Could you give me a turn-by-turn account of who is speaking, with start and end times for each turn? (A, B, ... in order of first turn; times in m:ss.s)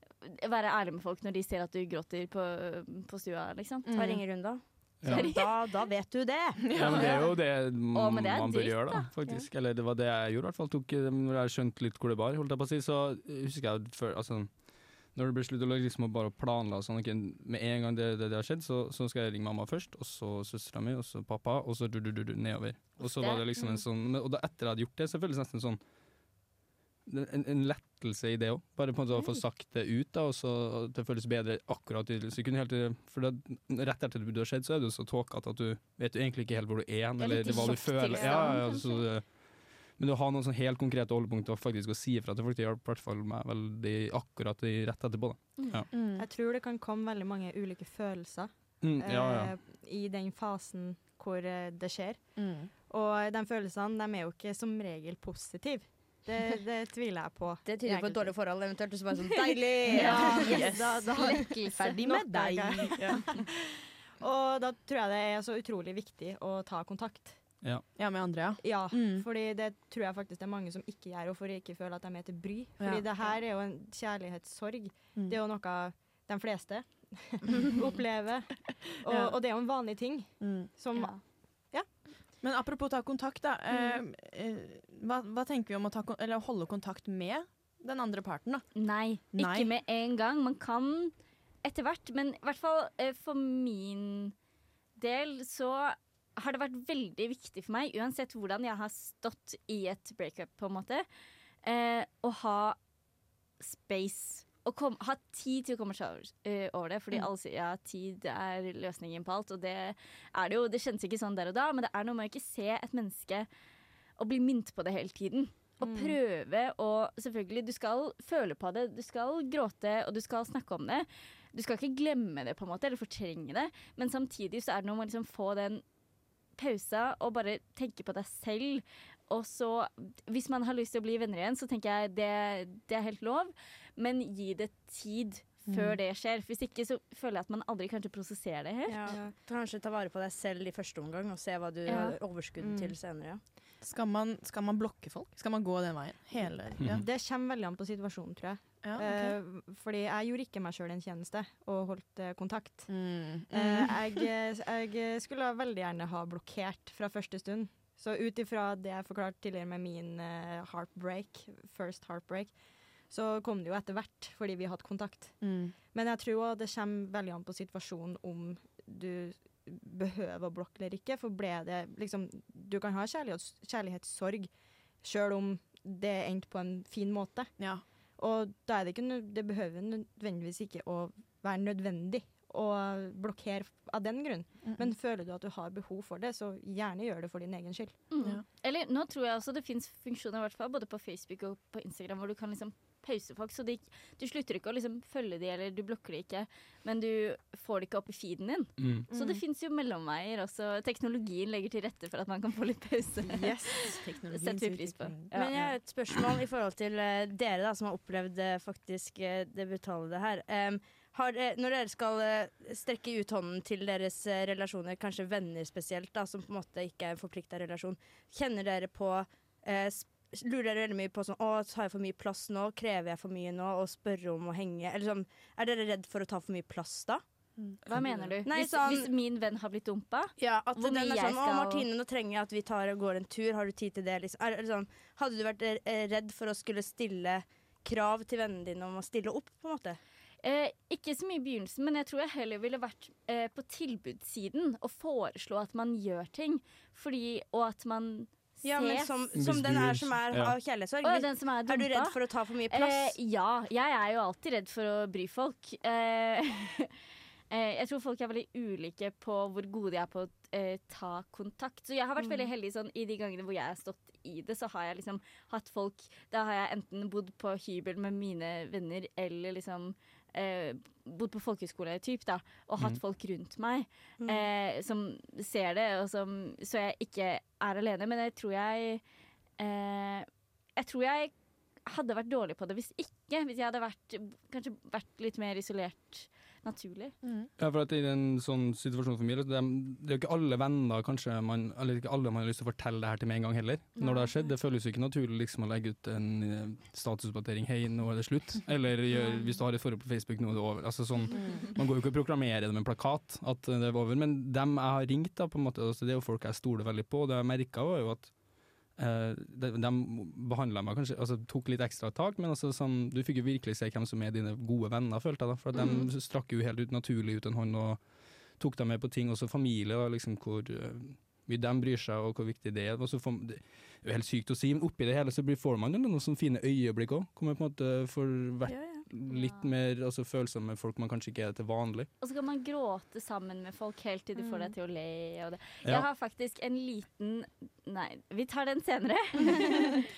0:00.2-0:03.9 A
0:03.9-0:04.2 B
0:03.9-0:06.6 C
0:05.1-0:05.5 A
0:06.7-0:07.1 B
0:06.7-0:14.6 D
0:06.9-0:09.1 A
0:15.1-0:25.8 D
0:23.0-0:23.5 A
0:27.1-0:39.3 D
0:37.2-0:39.1 A
0:40.0-0:45.9 D
0:45.6-0:45.8 A
0:45.9-0:46.2 B
0:46.2-0:58.3 E
0:48.8-0:49.5 D
0:52.4-0:52.7 B
0:57.7-1:00.6 C
0:59.9-1:03.2 B
0:59.9-1:03.4 E
1:00.0-1:02.0 A
1:04.2-1:07.4 E
1:08.0-1:09.2 B
1:08.6-1:21.2 E
1:12.8-1:13.1 B
1:19.1-1:19.4 B
1:20.4-1:20.7 B
1:22.4-1:28.7 B
1:28.8-1:34.4 A
1:29.3-1:29.7 B
1:35.0-1:41.0 A
1:41.6-1:42.8 A
1:43.6-1:53.5 A
1:54.2-2:05.8 A
1:55.8-1:56.1 B
2:06.6-2:19.2 A
2:15.7-2:16.0 B
2:18.9-2:23.4 C
2:21.9-2:22.2 A
2:23.8-2:27.0 B
2:26.8-2:32.9 E
2:28.8-2:29.4 B
2:32.9-2:34.3 B
2:33.5-2:42.6 E
2:43.1-2:54.5 E
2:45.4-2:45.7 B
2:55.0-2:57.5 E
2:57.6-2:57.8 B
2:58.2-3:08.0 E
3:08.1-3:25.5 A
3:18.8-3:19.1 D
3:19.1-3:19.4 B
3:23.2-3:24.0 E
3:23.8-3:25.3 B
3:25.3-3:47.2 C
3:47.6-3:48.2 B
3:47.9-3:51.9 A
3:48.4-3:49.1 C
3:50.4-4:00.0 C
4:00.4-4:09.1 A
4:08.6-4:13.2 C
4:09.4-4:10.6 D
4:11.0-4:12.2 A
4:12.7-4:16.9 A
4:17.5-4:39.0 A
4:22.2-4:22.5 C
4:34.2-4:34.5 C
4:39.6-4:41.3 A
4:41.9-4:47.1 A
4:47.2-4:47.5 B
4:47.6-5:08.4 D
4:54.0-4:54.4 A
5:01.3-5:01.7 B
5:09.0-5:18.0 D
5:18.6-5:32.1 D
5:28.7-5:29.0 C
5:29.3-5:29.7 A
5:32.2-5:40.1 A